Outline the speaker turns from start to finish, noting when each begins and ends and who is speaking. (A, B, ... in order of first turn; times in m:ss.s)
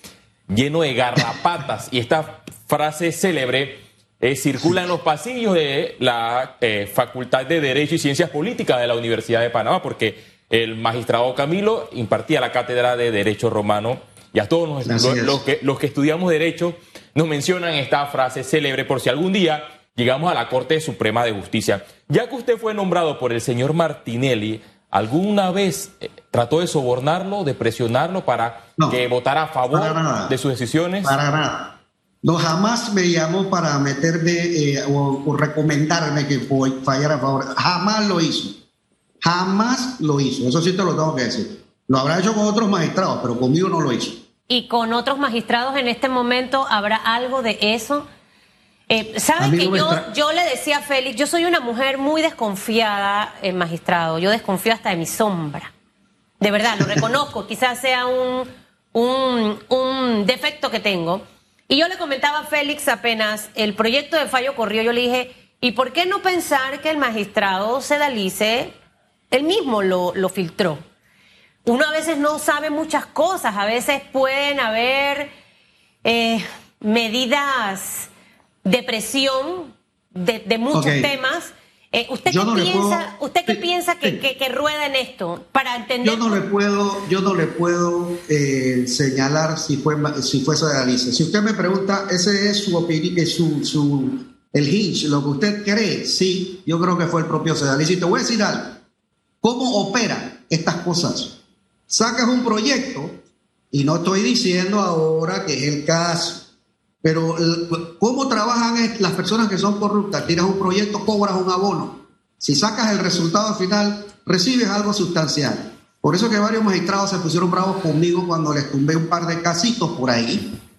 0:00.5-0:31.1 A
0:14.8-0:15.4 B
0:29.7-0:30.3 B
0:31.0-0:38.5 B
0:39.2-0:44.2 B
0:44.5-0:48.0 C
0:48.9-0:55.7 C
0:49.4-0:50.0 B
0:56.4-1:08.7 C
1:09.3-1:10.8 C
1:11.6-1:15.3 C
1:16.0-1:18.1 C
1:18.6-1:26.4 C
1:20.7-1:21.1 B
1:22.3-1:24.2 B
1:26.0-1:38.8 B
1:39.4-1:41.3 B
1:41.9-1:43.2 B
1:43.7-1:46.4 B
1:47.0-2:00.5 B